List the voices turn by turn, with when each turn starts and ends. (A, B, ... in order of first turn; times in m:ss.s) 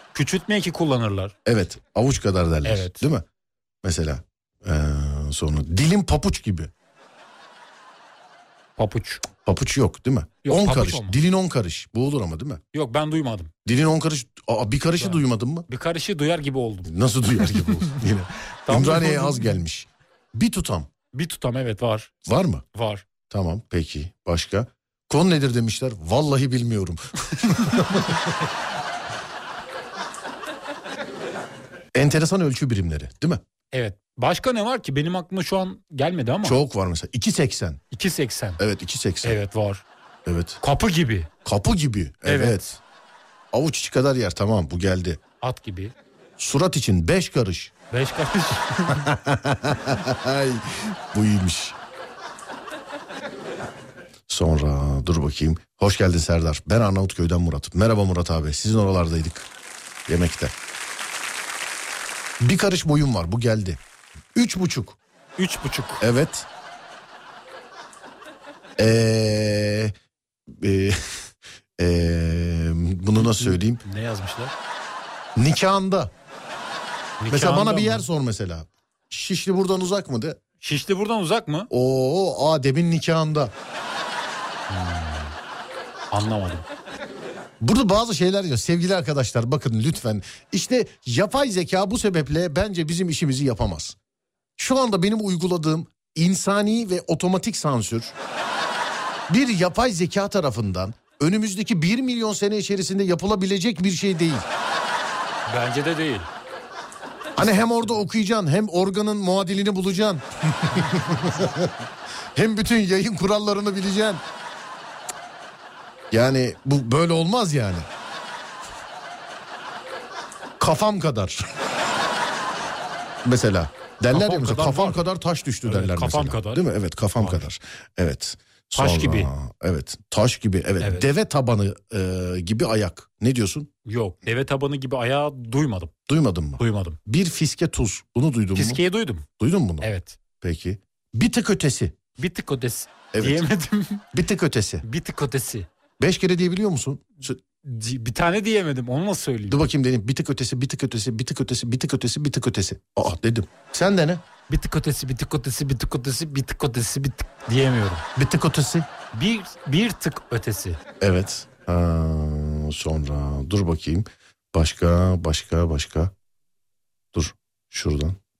0:00.1-0:01.4 A
0:01.5-0:03.2 B
0:02.6-0:03.1 A
0:03.8-0:06.7 B
0:08.8-0:09.3 A
0:09.4-0:12.6 B
0:10.4-0:11.2 A
0:12.7-0:13.5 A
0:13.6-0:15.7 B
0:15.0-0:18.0 A
0:16.8-0:20.9 B
0:18.7-0:19.6 A
0:21.1-0:22.1 A
0:22.3-0:22.6 B
0:22.7-0:23.0 A
0:23.3-0:28.3 B
0:32.0-0:33.4 B
0:33.7-0:36.6 A
0:36.4-0:37.8 B
0:37.9-0:38.6 A
0:38.6-0:39.4 B
0:39.2-0:39.8 A
0:40.3-0:40.6 B
0:40.6-0:41.3 A
0:41.4-0:42.8 B
0:42.2-0:42.8 A
0:43.5-0:45.2 B
0:45.4-0:46.0 A
0:46.4-0:47.7 B
0:47.9-0:49.1 A
0:48.9-0:51.8 B
0:54.3-0:59.5 B
1:00.1-1:00.5 B
1:02.4-1:03.8 B
1:04.4-1:05.0 B
1:05.4-1:06.0 A
1:06.0-1:06.5 B
1:08.8-1:09.9 B
1:10.5-1:13.8 B
1:13.2-1:14.6 A
1:15.4-1:16.1 B
1:17.2-1:18.1 A
1:17.3-1:20.4 B
1:20.6-1:21.7 A
1:21.7-1:23.5 B
1:24.7-1:25.4 A
1:26.1-1:26.7 A
1:27.6-1:34.0 B
1:34.6-1:38.2 B
1:39.3-1:44.5 B
1:45.5-1:46.3 A
1:47.4-1:51.8 B
1:52.4-1:54.2 B
1:56.1-1:57.9 B
2:00.6-2:01.5 B
2:03.2-2:13.7 B
2:04.1-2:05.0 A
2:05.6-2:07.4 A
2:08.8-2:09.3 A
2:10.8-2:11.1 A
2:13.8-2:15.9 A
2:16.1-2:19.9 B
2:16.6-2:17.0 A
2:18.6-2:19.3 A
2:19.8-2:20.2 A
2:20.4-2:22.0 B
2:22.2-2:24.1 A
2:23.1-2:23.4 B
2:24.1-2:24.8 B
2:24.8-2:25.7 A
2:26.0-2:27.4 B
2:27.6-2:29.7 A
2:29.5-2:34.2 B
2:34.5-2:38.0 A
2:38.2-2:38.9 B
2:39.1-2:40.8 A
2:41.0-2:46.1 B
2:47.1-2:48.2 B